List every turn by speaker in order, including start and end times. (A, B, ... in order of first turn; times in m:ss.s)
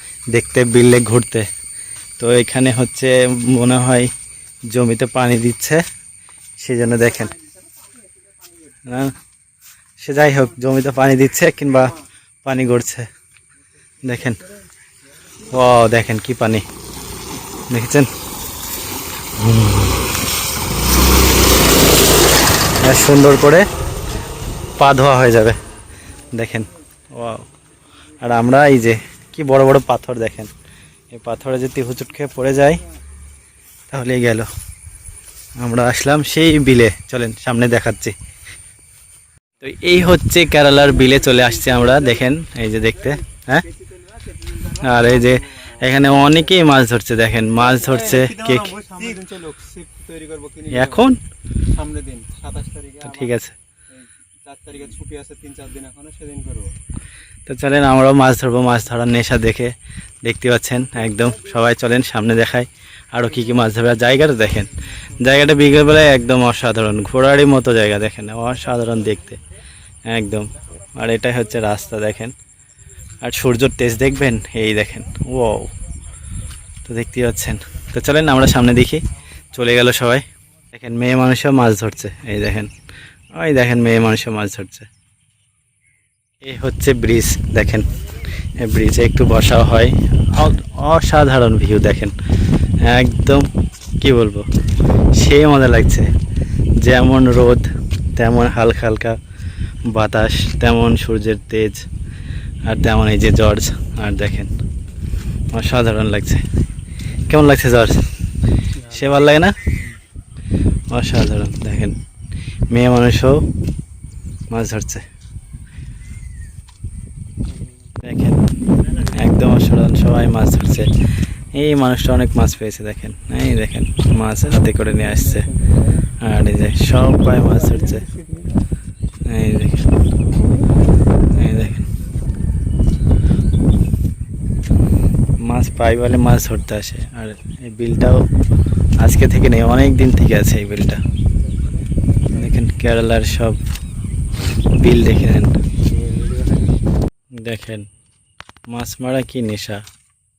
0:00.3-0:01.5 A
0:02.2-0:04.1 A
0:04.7-0:05.8 A
0:06.6-0:07.4 A
0:07.2-0:08.5 B
0:08.8-0:09.2 A
0:10.0-0:13.1 A
0:14.0-0:14.5 A
0:15.4-0:16.6 A
0:17.7-0:18.1 A
0:19.4-0:20.0 A
0:22.8-0:23.7 A
0:24.8-0:25.6 A
0:26.3-0:27.5 A
0:28.2-0:30.5 A
0:31.1-0:32.8 A
0:33.9-0:34.5 A
0:35.6-0:38.1 A
0:39.6-0:43.7 A
0:40.8-0:42.2 B
0:43.7-0:46.4 B
0:44.7-0:48.8 A
0:47.6-0:51.1 B
0:50.7-0:51.2 A
0:51.6-0:53.3 B
0:53.0-0:53.6 A
0:53.9-0:56.7 B
0:57.5-1:09.4 A
1:10.0-1:12.4 A
1:13.2-1:15.7 A
1:16.8-1:19.0 A
1:19.5-1:22.7 A
1:23.3-1:24.9 A
1:26.4-1:32.1 A
1:32.8-1:33.5 A
1:34.0-1:34.5 A
1:35.1-1:36.1 A
1:36.8-1:39.2 A
1:39.9-1:41.8 A
1:42.6-1:44.5 A
1:45.5-1:46.4 A
1:47.3-1:48.0 A
1:48.8-1:49.6 A
1:50.9-1:52.0 A
1:52.7-1:53.4 A
1:54.5-1:55.0 A
1:58.0-1:58.4 A
1:58.9-2:00.9 A
2:01.5-2:05.5 A
2:05.4-2:05.7 B
2:06.2-2:08.1 A
2:08.0-2:08.6 B
2:09.2-2:09.9 A
2:11.3-2:11.9 A
2:15.4-2:18.2 A
2:19.0-2:21.0 A
2:22.3-2:23.6 A
2:24.8-2:25.6 A
2:26.0-2:26.5 B
2:27.4-2:27.9 A
2:28.7-2:29.8 A